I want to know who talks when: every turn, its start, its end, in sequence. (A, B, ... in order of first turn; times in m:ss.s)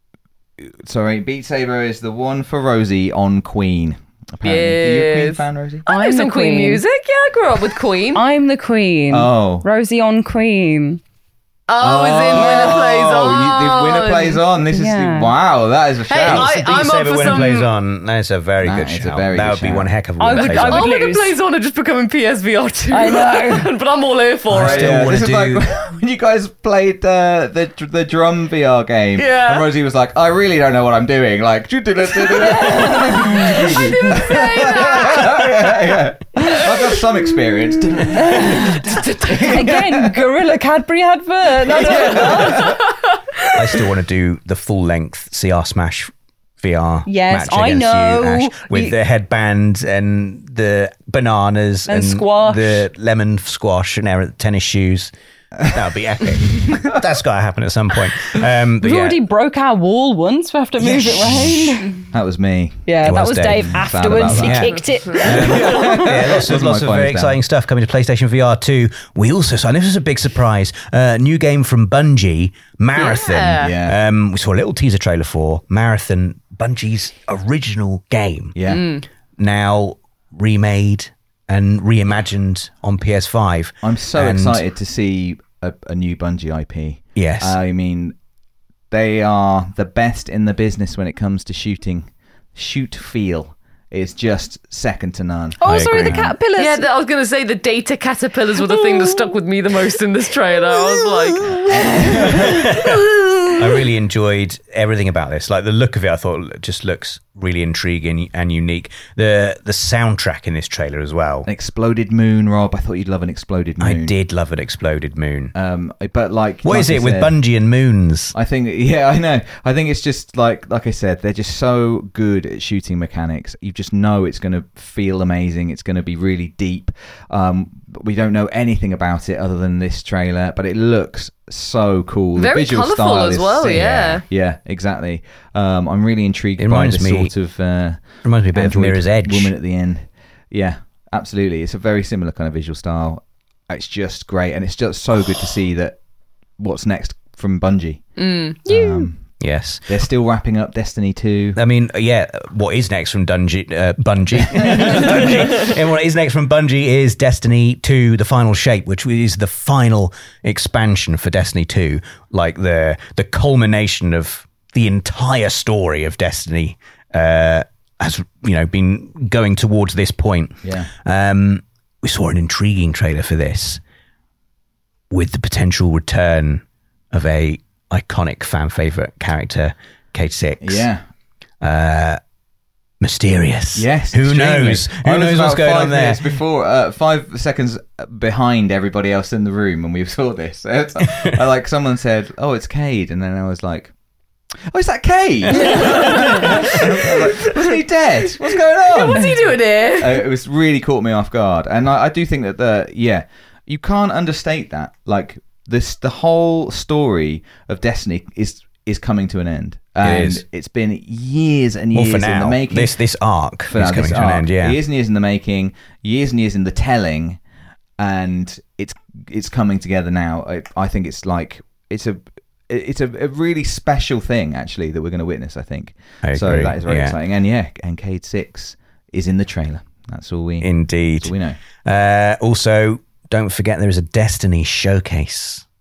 0:00.6-0:05.8 A
0:04.4-0:08.2 B
0:05.9-0:06.8 C
0:08.1-0:11.0 C
0:09.1-0:09.6 A
0:11.7-0:14.4 B
0:11.8-0:16.5 A
0:14.7-0:15.3 C
0:16.1-0:17.7 B
0:16.2-0:20.9 D
0:18.6-0:19.9 A
0:20.2-0:21.4 C
0:20.3-0:25.0 B
0:22.9-0:23.7 C
0:24.5-0:25.7 D
0:24.5-0:40.2 A
0:29.2-0:29.7 B
0:32.5-0:34.2 C
0:33.2-0:35.6 B
0:36.4-0:36.7 B
0:38.1-0:42.8 C
0:38.8-0:39.6 B
0:41.7-0:42.8 A
0:41.8-0:43.6 B
0:43.5-0:55.1 D
0:47.0-0:48.9 C
0:51.9-0:52.8 C
0:55.6-0:59.2 D
0:56.4-0:57.0 A
0:58.8-1:02.0 C
1:00.8-1:01.7 D
1:02.1-1:02.9 A
1:02.8-1:06.2 C
1:03.0-1:18.6 D
1:03.4-1:07.4 A
1:13.0-1:13.7 B
1:13.6-1:14.0 A
1:18.5-1:18.9 A
1:18.6-1:19.0 B
1:19.4-1:24.6 D
1:23.8-1:28.2 A
1:27.2-1:27.6 D
1:28.9-1:36.2 A
1:35.6-1:36.9 C
1:35.6-1:36.3 D
1:36.6-1:42.5 B
1:38.6-1:39.3 C
1:40.7-1:42.7 C
1:41.7-1:42.7 A
1:42.3-1:51.5 D
1:51.4-1:54.1 A
1:53.8-1:55.5 D
1:55.5-1:57.4 A
1:56.6-1:58.3 D
1:58.3-2:26.0 A
2:12.4-2:14.2 B
2:16.6-2:17.3 D
2:18.2-2:19.5 D
2:26.6-2:29.3 A
2:28.2-2:28.5 B
2:28.6-2:29.1 C
2:29.4-2:29.9 D
2:29.9-2:31.6 A
2:31.6-2:53.8 D
2:34.6-2:35.3 A
2:50.6-2:50.9 A
2:55.1-3:00.9 D
3:00.6-3:01.0 A
3:01.6-3:02.2 D
3:03.0-3:06.4 D
3:03.7-3:13.9 A
3:11.1-3:11.4 D
3:14.7-3:32.9 A
3:15.5-3:16.7 D
3:15.6-3:17.6 B
3:18.7-3:20.3 B
3:30.0-3:30.4 D
3:31.9-3:34.8 D
3:33.7-3:37.4 A
3:38.0-3:51.6 A
3:46.2-3:47.2 D
3:50.6-3:51.3 D
3:51.8-3:55.6 D